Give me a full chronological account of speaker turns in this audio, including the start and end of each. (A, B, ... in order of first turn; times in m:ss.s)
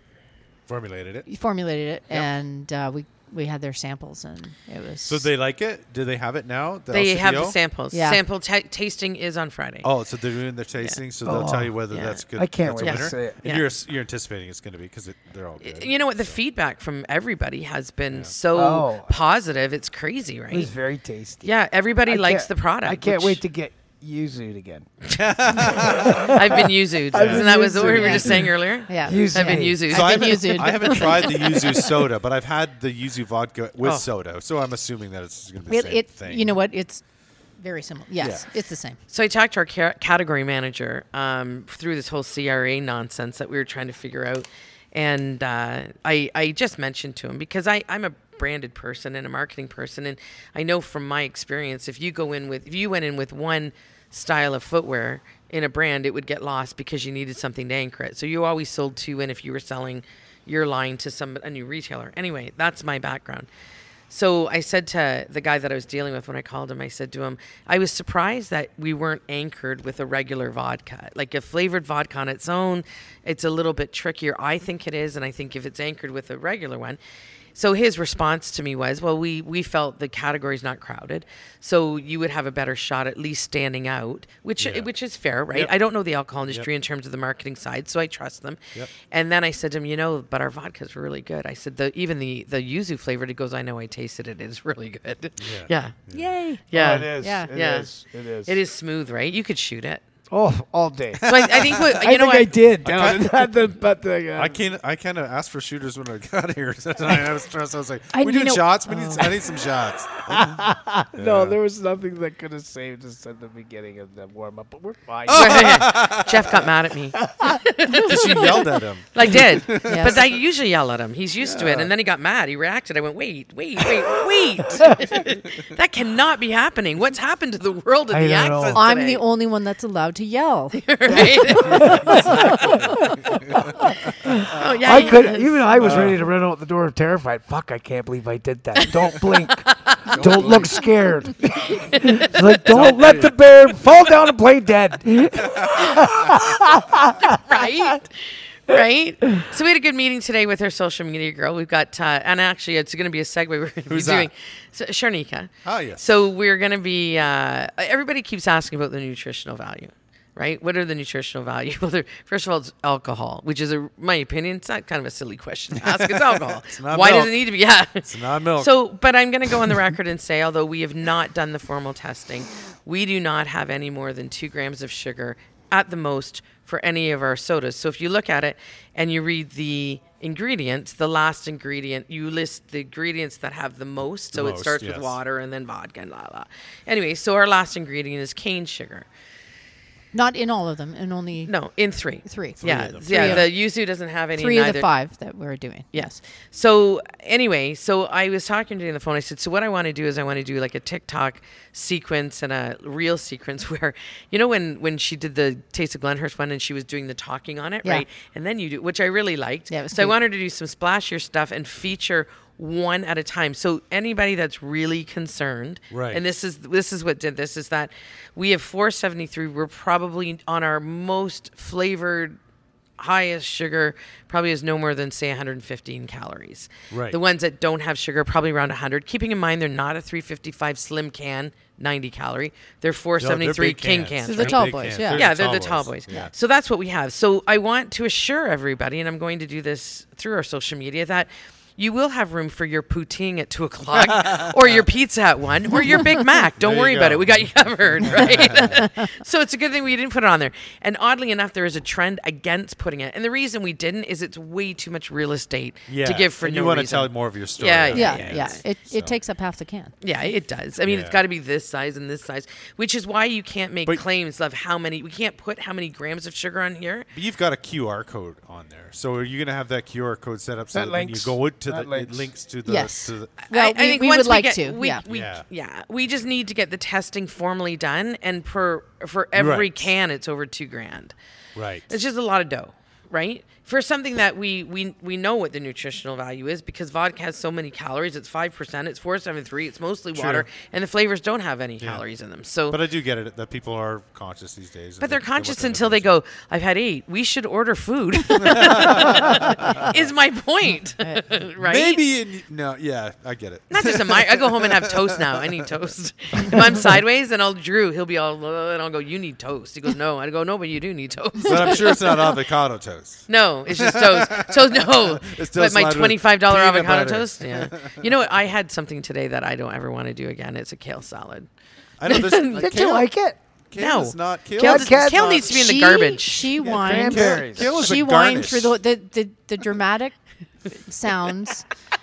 0:00.7-0:01.3 A
0:01.3-0:05.3 B
0:05.1-0:07.6 A
0:06.9-0:09.9 C
0:07.9-0:08.2 B
0:09.8-0:16.4 A
0:11.2-0:11.7 D
0:11.9-0:12.2 C
0:12.4-0:13.4 D
0:12.8-0:13.7 C
0:15.6-0:20.7 C
0:18.5-0:19.2 D
0:20.5-0:21.5 D
0:21.4-0:23.4 C
0:22.1-0:24.9 D
0:25.1-0:27.4 A
0:25.6-0:29.8 D
0:26.3-0:31.1 C
0:27.3-0:31.7 B
0:29.9-0:36.6 A
0:33.8-0:34.1 C
0:35.7-0:37.0 B
0:37.6-0:39.0 B
0:38.2-0:38.5 A
0:39.1-1:03.5 C
1:04.1-1:17.0 C
1:17.5-1:28.6 C
1:24.6-1:24.9 A
1:29.1-1:36.0 C
1:35.4-1:36.4 A
1:36.1-1:36.6 B
1:36.7-1:37.9 C
1:36.7-1:38.5 D
1:37.2-1:37.5 B
1:38.4-1:40.0 C
1:40.3-1:41.3 D
1:41.2-1:42.0 A
1:41.3-1:42.5 C
1:41.8-1:44.6 D
1:42.8-1:43.5 A
1:44.4-1:51.6 A
1:48.1-1:49.4 B
1:50.3-1:56.1 D
1:55.3-1:56.6 A
1:55.3-2:09.2 C
1:57.2-1:57.6 D
1:57.9-2:00.4 A
1:59.8-2:00.2 B
2:01.4-2:01.9 A
2:08.1-2:08.8 D
2:08.7-2:10.8 B
2:10.7-2:12.7 C
2:11.1-2:27.4 D
2:11.7-2:13.7 A
2:12.1-2:12.5 B
2:14.3-2:16.0 C
2:15.8-2:16.2 A
2:20.1-2:20.8 A
2:22.4-2:23.2 C
2:22.6-2:23.9 A
2:25.4-2:26.7 A
2:27.4-2:28.2 C
2:28.7-3:09.0 C
2:33.9-2:34.3 A
2:35.6-2:36.1 A
2:45.8-2:47.4 A
2:48.0-2:48.7 A
3:04.3-3:05.2 A
3:10.1-3:11.5 B
3:11.5-3:14.9 C
3:12.2-3:13.5 B
3:12.6-3:13.5 A
3:14.4-3:16.2 B
3:15.9-3:42.4 C
3:29.7-3:30.2 B
3:35.9-3:36.2 A
3:43.0-4:18.6 C
3:46.9-3:47.2 A
3:53.2-3:56.3 A
3:54.2-3:55.3 B
4:03.9-4:04.9 A
4:06.6-4:08.8 A
4:08.7-4:09.1 B
4:15.9-4:19.1 A
4:17.9-4:20.0 B
4:20.0-4:27.1 C
4:20.8-4:21.2 A
4:27.1-4:33.3 A
4:30.7-4:32.3 D
4:32.6-4:35.0 B
4:33.4-4:41.1 C
4:35.0-4:35.4 A
4:39.3-4:39.9 A
4:41.5-4:41.9 A
4:41.9-4:52.8 C
4:50.1-4:50.5 A
4:51.8-4:52.0 A
4:52.7-4:56.1 A
4:55.0-5:02.0 C
4:58.4-5:00.0 A
4:59.5-4:59.8 B
5:01.6-5:07.0 A
5:03.7-5:12.3 C
5:11.4-5:18.1 A
5:13.3-5:21.5 C
5:22.0-5:23.1 A
5:22.0-5:22.8 C
5:22.5-5:23.4 D
5:23.7-5:25.6 A
5:23.8-5:26.6 C
5:24.6-5:25.4 D
5:25.4-5:30.2 B
5:26.6-5:27.7 D
5:26.6-5:28.8 A
5:30.7-5:31.6 B